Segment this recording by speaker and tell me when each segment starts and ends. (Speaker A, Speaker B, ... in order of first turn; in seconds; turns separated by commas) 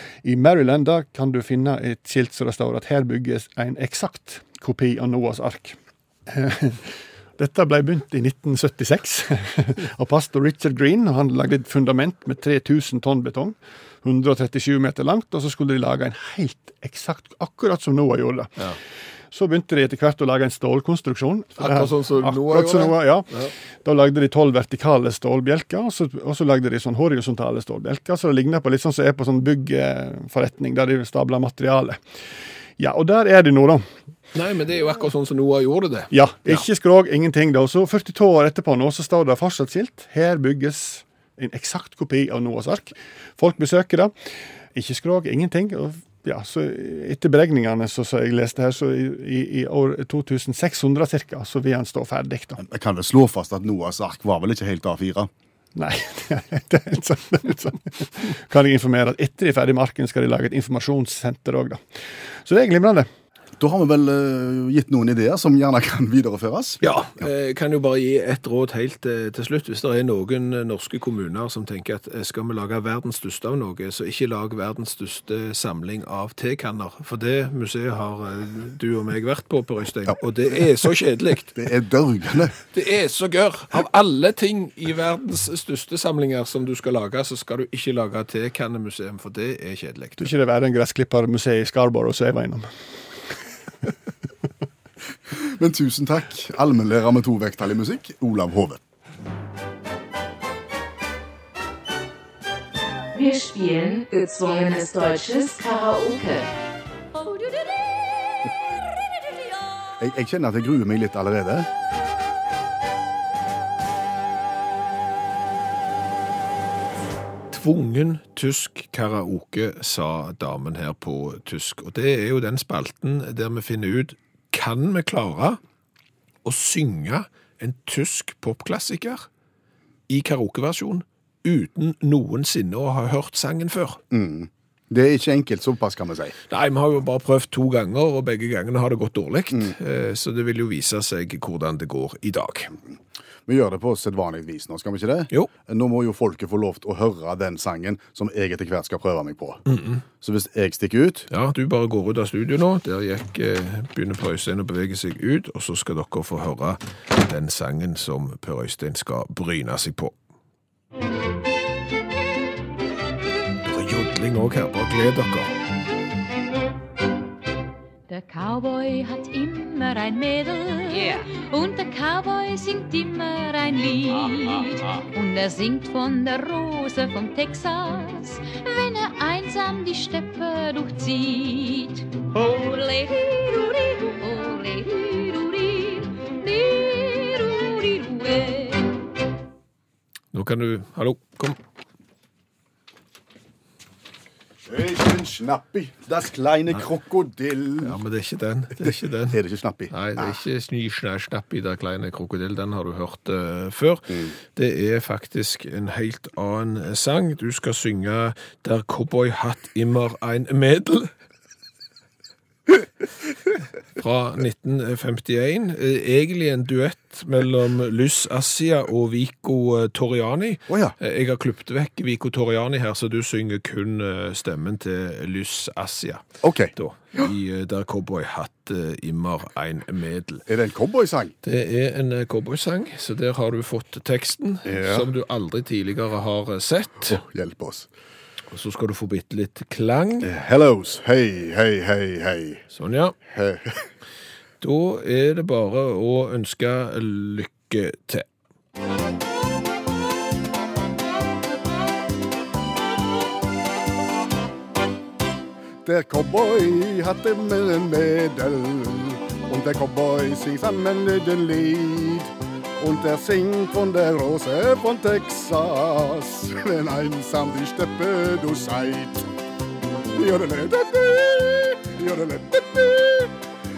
Speaker A: 0.2-18.6, Speaker A: 19.3-23.3, Speaker B: 21.6-23.5, Speaker A: 23.8-32.0, Speaker A: 32.8-33.8, Speaker B: 34.3-36.6, Speaker A: 36.1-44.1, Speaker A: 44.7-52.6, Speaker C: 52.6-55.3, Speaker A: 55.7-61.8, Speaker A: 62.4-63.1, Speaker C: 63.6-66.8, Speaker B: 66.8-81.5, Speaker C: 81.5-82.5, Speaker B: 82.7-90.3, Speaker A: 90.2-92.7, Speaker C: 95.3-98.8, Speaker D: 103.1-106.5, Speaker C: 110.0-111.7, Speaker B: 117.5-125.6, Speaker B: 126.4-129.3, Speaker B: 130.1-134.0, Speaker C: 134.1-136.3, Speaker B: 136.5-142.7, Speaker C: 143.4-149.6, Speaker B: 149.7-150.0, Speaker C: 150.2-151.3, Speaker B: 151.3-160.1, Speaker B: 163.6-165.5, Speaker E: 168.1-188.9, Speaker D: 170.9-171.3, Speaker B: 190.3-191.6, Speaker C: 194.6-198.0, Speaker B: 197.8-199.4, Speaker C: 198.8-200.4, Speaker B: 199.9-211.1, Speaker B: 214.0-230.4, Speaker C: 220.7-220.9, Speaker C: 226.4-226.7, Speaker C: 230.5-231.3, Speaker B: 231.4-237.2, Speaker C: 234.6-235.1, Speaker C: 237.1-237.9, Speaker B: 238.5-240.3, Speaker C: 240.2-242.6, Speaker B: 242.7-243.2, Speaker C: 243.3-243.9, Speaker B: 244.6-248.3, Speaker C: 255.8-269.3, Speaker C: 270.1-273.3